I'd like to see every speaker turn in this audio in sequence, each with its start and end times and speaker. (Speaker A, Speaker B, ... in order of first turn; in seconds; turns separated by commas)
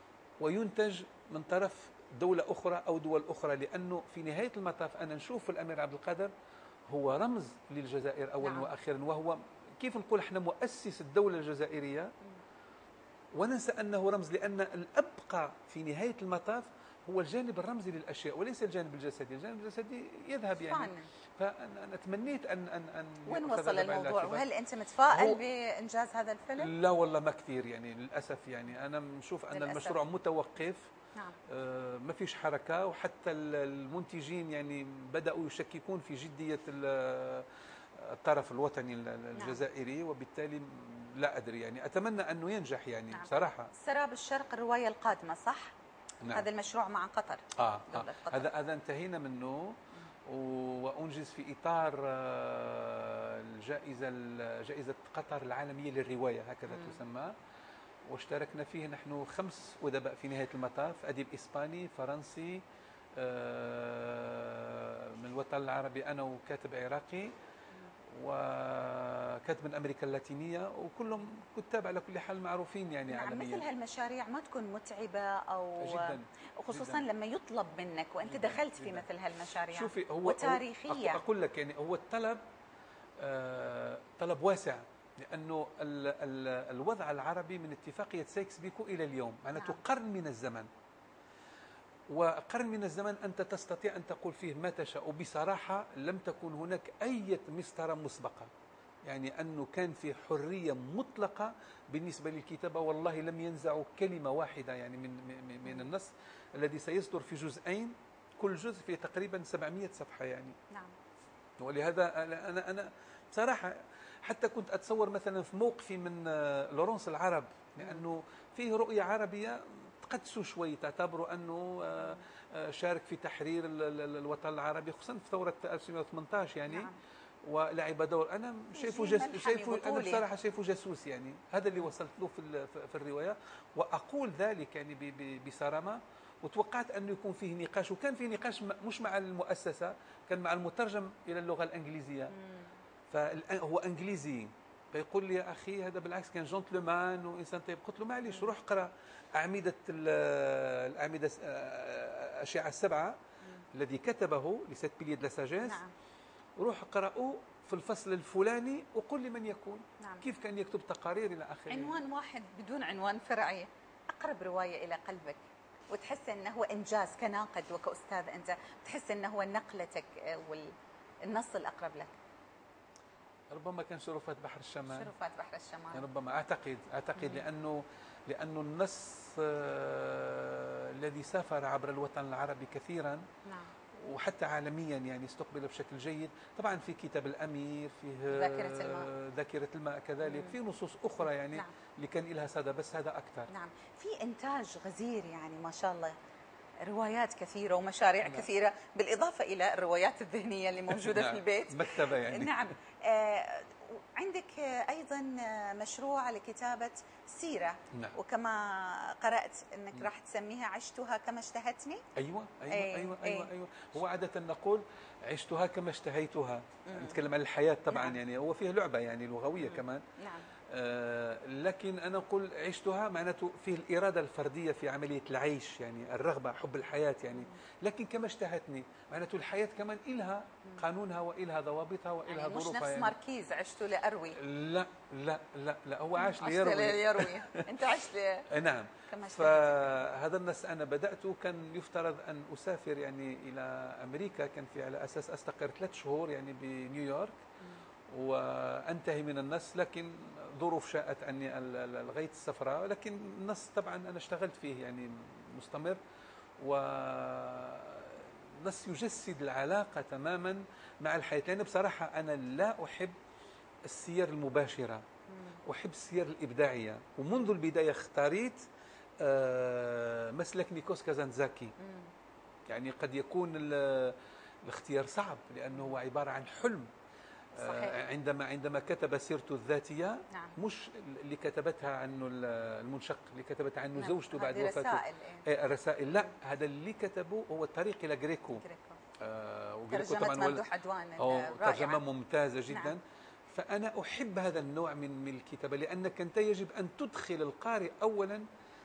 Speaker A: 0.4-6.3, Speaker A: 6.9-12.1, Speaker B: 8.4-8.7, Speaker A: 13.3-24.4, Speaker B: 20.6-21.1, Speaker B: 23.3-26.7, Speaker A: 25.1-25.4, Speaker A: 26.6-30.9, Speaker B: 29.5-30.0, Speaker A: 31.4-43.7, Speaker B: 39.4-39.6, Speaker B: 43.1-45.7, Speaker B: 46.3-48.5, Speaker A: 47.6-57.3, Speaker B: 56.7-57.0, Speaker A: 58.1-62.6, Speaker A: 63.2-67.3, Speaker A: 68.1-73.7, Speaker B: 73.1-81.2, Speaker A: 75.8-77.0, Speaker A: 78.3-79.1, Speaker A: 79.7-82.4, Speaker A: 83.2-90.7, Speaker A: 92.1-98.5, Speaker A: 99.1-110.6, Speaker A: 111.6-126.9, Speaker B: 126.7-127.0, Speaker A: 127.5-142.4, Speaker B: 128.8-130.2, Speaker B: 142.4-142.7, Speaker A: 143.1-153.2, Speaker B: 148.3-148.5, Speaker A: 153.7-155.8, Speaker B: 155.6-155.9, Speaker A: 156.6-162.0, Speaker B: 160.0-160.3, Speaker B: 161.7-170.7, Speaker B: 171.2-172.2, Speaker A: 173.5-175.1, Speaker B: 174.9-176.0, Speaker A: 175.9-183.3, Speaker B: 177.2-177.4, Speaker B: 183.4-183.7, Speaker A: 183.9-193.5, Speaker B: 188.3-189.1, Speaker B: 190.2-190.6, Speaker B: 193.5-196.2, Speaker B: 196.8-212.1, Speaker A: 198.2-198.5, Speaker A: 200.9-202.7, Speaker A: 207.9-208.2, Speaker A: 212.2-220.1, Speaker B: 212.7-213.5, Speaker B: 216.9-217.2, Speaker B: 217.9-218.2, Speaker B: 219.6-220.5, Speaker A: 220.6-233.1, Speaker B: 227.3-227.6, Speaker B: 232.3-234.4, Speaker A: 234.3-237.8, Speaker B: 236.2-238.5, Speaker A: 238.5-247.4, Speaker B: 239.1-240.0, Speaker A: 248.1-256.0, Speaker A: 256.6-263.2, Speaker A: 263.9-265.1, Speaker B: 265.3-265.6, Speaker A: 265.7-268.6, Speaker A: 269.2-271.8, Speaker B: 271.8-272.1, Speaker A: 272.7-276.9, Speaker B: 277.6-278.0, Speaker A: 277.6-288.6, Speaker B: 280.3-280.6, Speaker B: 284.0-285.4, Speaker B: 288.6-289.0, Speaker A: 289.2-290.6, Speaker B: 289.9-292.0, Speaker A: 291.2-298.5, Speaker B: 292.7-292.9